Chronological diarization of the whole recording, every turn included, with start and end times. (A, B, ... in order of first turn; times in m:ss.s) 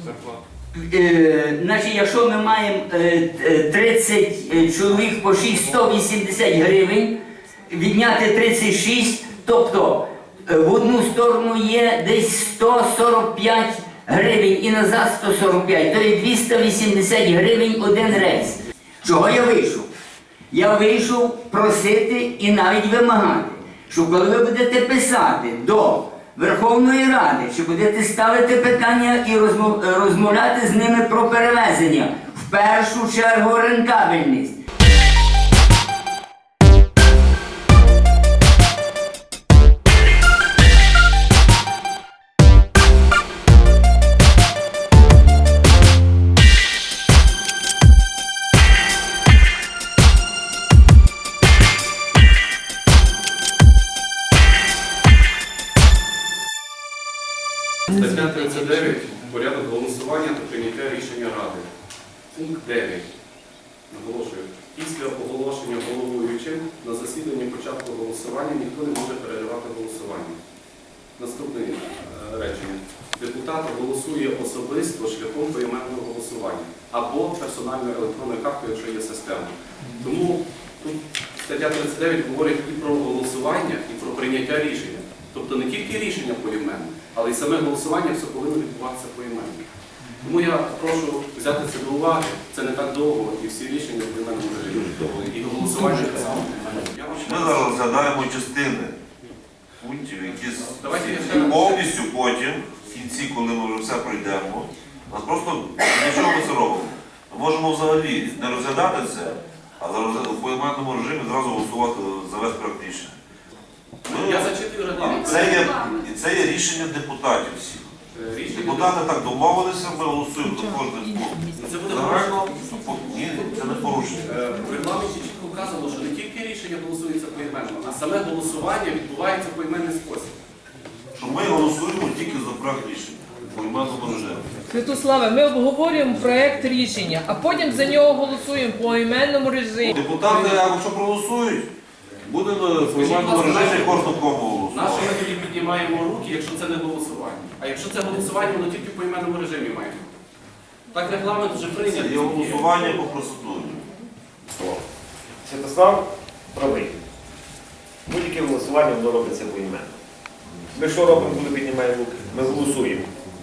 0:00.7-0:07.1 A
0:07.6-0:19.9 A
0:20.5-0:34.6 A
0:57.9-1:01.7 B
1:02.3-1:03.0 B
1:03.9-1:10.4 B
1:11.2-1:29.6 B
1:30.2-1:37.9 B
1:34.7-1:35.1 C
1:37.2-1:39.0 C
1:39.8-1:53.1 C
1:40.8-1:41.9 B
1:54.0-1:57.9 C
1:54.1-1:56.0 B
1:58.1-1:59.0 B
1:58.5-2:04.4 C
2:00.5-2:01.8 D
2:01.5-2:02.7 B
2:04.2-2:10.3 B
2:11.2-2:14.5 C
2:14.7-2:19.9 D
2:19.8-2:21.7 C
2:22.2-2:25.1 C
2:22.9-2:24.1 B
2:24.7-2:30.1 B
2:30.9-2:32.7 B
2:31.8-2:33.8 C
2:35.4-2:37.0 E
2:38.0-2:39.9 E
2:40.7-2:43.1 E